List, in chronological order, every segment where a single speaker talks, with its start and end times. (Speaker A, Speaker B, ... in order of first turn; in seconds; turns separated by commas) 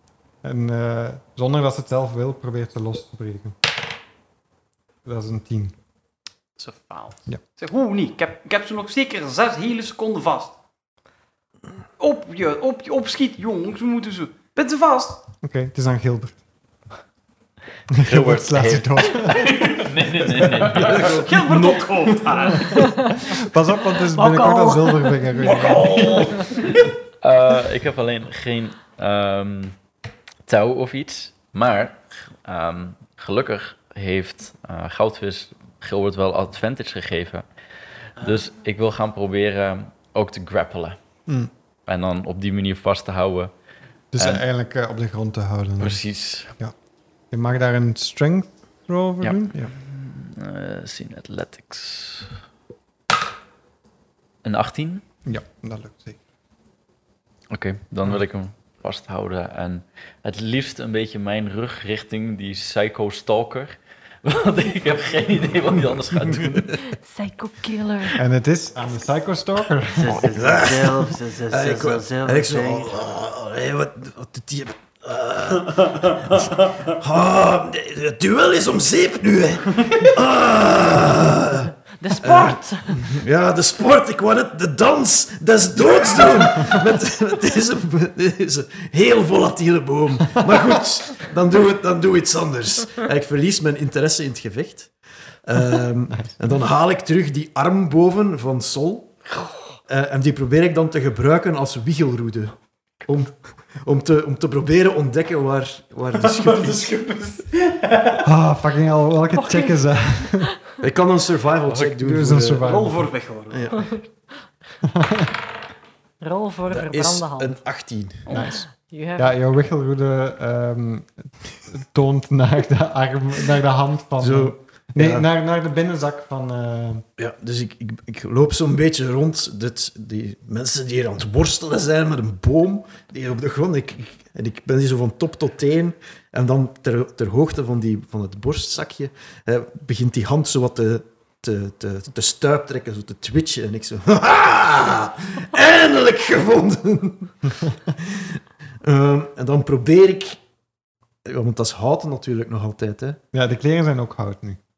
Speaker A: 0.4-3.6, Speaker A: 5.0-5.7, Speaker B: 6.6-10.6, Speaker B: 12.0-15.2, Speaker A: 15.4-16.4, Speaker A: 17.9-19.5, Speaker C: 18.0-21.3, Speaker B: 19.2-22.9, Speaker D: 20.8-22.5, Speaker E: 22.6-23.3, Speaker A: 23.2-26.3, Speaker E: 24.1-25.4, Speaker B: 25.4-26.8, Speaker C: 27.2-29.8, Speaker C: 30.4-37.5, Speaker B: 38.2-38.5, Speaker C: 38.2-41.0, Speaker C: 41.9-43.5, Speaker A: 44.1-46.0, Speaker C: 44.1-44.4, Speaker C: 45.8-46.5, Speaker A: 47.3-49.7, Speaker C: 49.2-52.3, Speaker C: 54.4-55.0, Speaker A: 55.2-56.2, Speaker C: 57.5-66.8, Speaker D: 66.3-66.6, Speaker E: 66.9-68.2, Speaker A: 68.2-70.3, Speaker B: 69.9-73.0, Speaker D: 70.2-94.9, Speaker E: 82.0-83.1, Speaker D: 95.4-99.2, Speaker D: 99.9-106.9, Speaker B: 106.1-108.2, Speaker A: 108.2-110.5, Speaker E: 109.3-110.5, Speaker D: 110.8-112.6, Speaker C: 111.7-112.0, Speaker A: 112.0-113.1, Speaker B: 112.6-113.8, Speaker D: 113.5-113.9, Speaker E: 113.7-114.0, Speaker A: 114.8-115.3, Speaker E: 116.2-117.6, Speaker D: 116.7-118.3, Speaker B: 118.3-118.6, Speaker A: 118.3-118.7, Speaker E: 118.3-119.3, Speaker A: 119.2-127.0, Speaker D: 124.2-125.2, Speaker D: 127.2-150.4, Speaker D: 151.2-153.2, Speaker A: 153.3-154.6